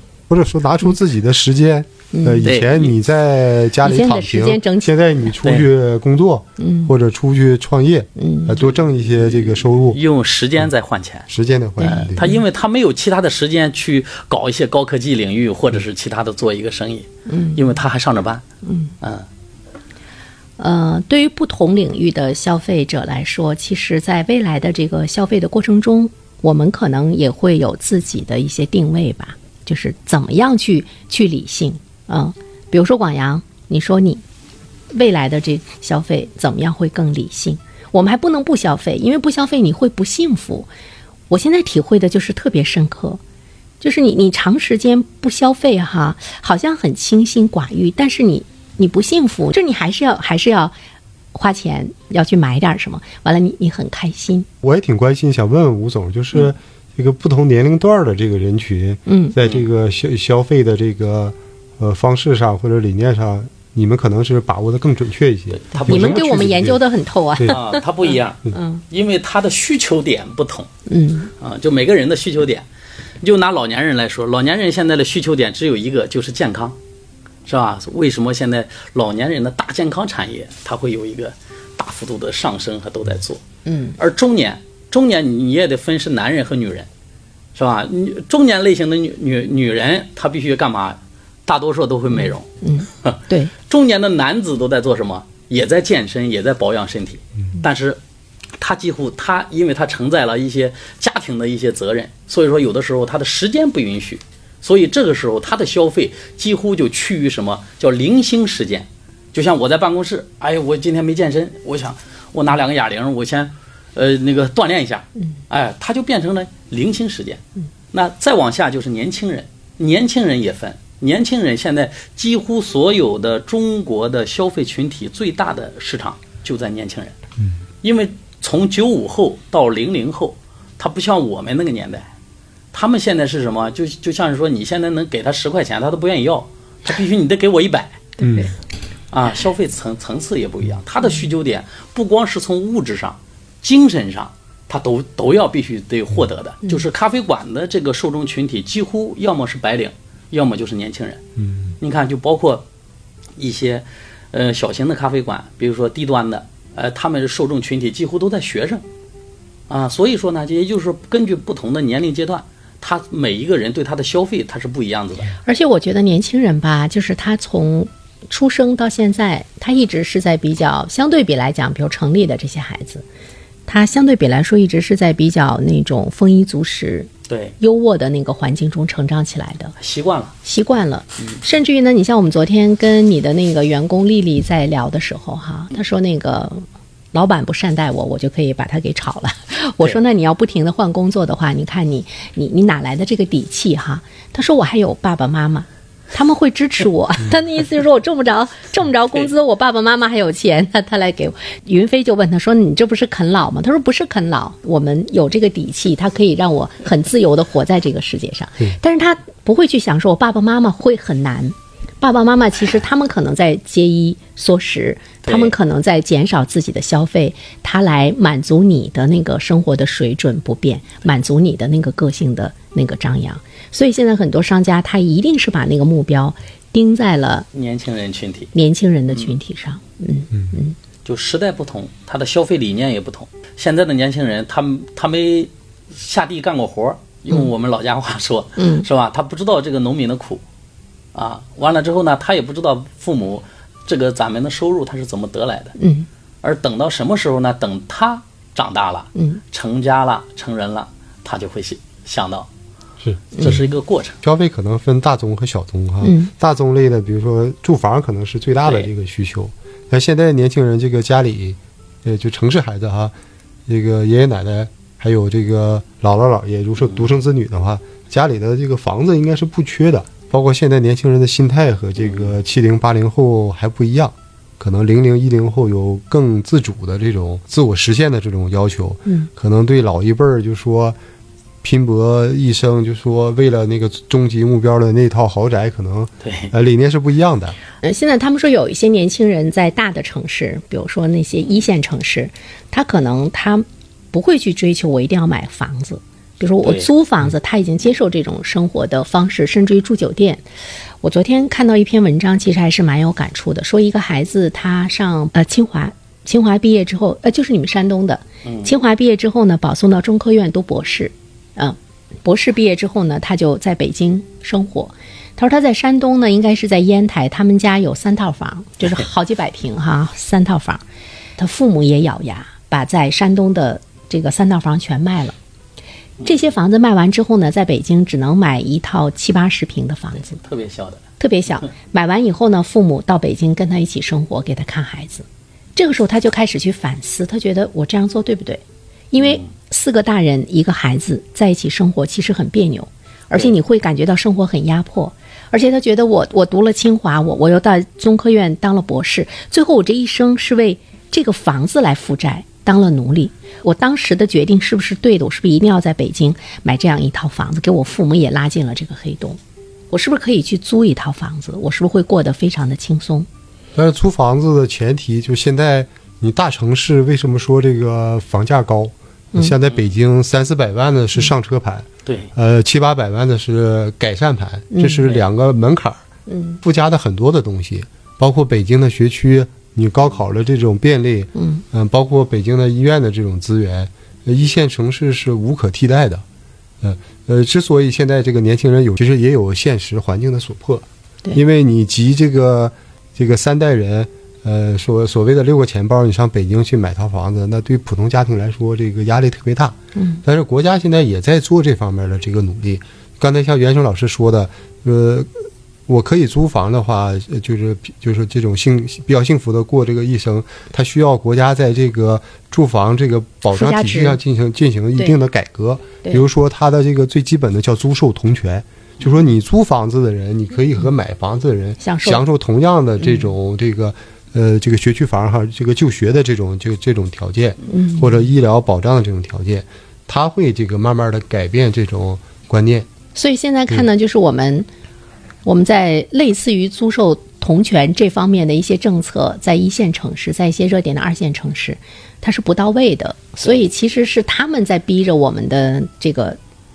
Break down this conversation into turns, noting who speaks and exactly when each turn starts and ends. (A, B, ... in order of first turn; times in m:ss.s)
0:00.3-0:10.0 A
0:02.1-0:02.5 B
0:02.4-0:03.0 C
0:03.8-0:05.0 B
0:06.6-0:06.9 B
0:08.2-0:08.6 B
0:09.0-0:11.3 C
0:11.3-0:12.2 A
0:11.8-0:12.4 B
0:11.8-0:18.4 C
0:17.3-0:17.7 B
0:18.6-0:18.9 B
0:19.0-0:19.3 C
0:20.6-0:34.2 B
0:34.9-0:40.7 B
0:41.3-0:43.2 B
0:43.8-0:50.8 B
0:51.3-0:54.5 B
0:54.6-1:06.8 A
0:59.1-0:59.4 B
1:05.5-1:06.3 C
1:05.8-1:07.8 B
1:07.5-1:10.7 C
1:08.5-1:08.8 B
1:10.9-1:11.3 B
1:11.4-1:12.7 C
1:13.2-1:16.8 C
1:17.5-1:23.4 C
1:23.7-1:24.0 B
1:24.0-1:26.9 C
1:27.6-1:32.5 C
1:32.6-1:33.5 B
1:33.0-1:38.0 C
1:38.6-2:07.2 C
2:07.8-2:12.1 C
2:12.7-2:18.1 C
2:18.2-2:18.5 B
2:18.2-2:18.5 A
2:19.1-2:31.2 C
2:31.4-2:31.7 A
2:31.8-2:32.6 C
2:33.4-2:38.8 C
2:39.7-2:45.3 C
2:45.4-2:53.1 B
2:53.7-2:59.8 B
2:57.3-2:57.6 C
2:59.8-3:00.4 C
3:00.4-3:47.5 B
3:35.2-3:35.5 C
3:47.5-3:48.5 C
3:48.5-3:50.8 B
3:51.0-4:00.4 C
3:58.6-3:58.9 B
4:01.2-4:05.8 C
4:05.8-4:06.1 B
4:06.4-4:12.5 C
4:13.0-4:13.6 A
4:13.4-4:13.6 B
4:13.4-4:14.2 C
4:14.2-4:23.1 A
4:16.0-4:16.3 B
4:23.7-4:41.0 A
4:41.6-4:47.6 A
4:46.2-4:46.5 C
4:47.8-5:00.4 B
5:01.0-5:20.8 B
5:21.4-5:25.4 B
5:26.2-5:30.4 B
5:30.4-5:31.0 C
5:31.2-5:59.4 B
5:59.9-6:03.3 B
6:03.8-6:16.0 A
6:14.7-6:15.1 B
6:16.3-6:16.6 B
6:16.6-6:26.2 A
6:21.4-6:21.6 B
6:26.8-7:12.9 A
6:40.0-6:40.2 B
6:53.5-6:54.2 B
7:01.8-7:02.2 B
7:03.0-7:03.3 B
7:07.7-7:08.2 B
7:13.2-7:14.7 B
7:15.4-7:26.4 B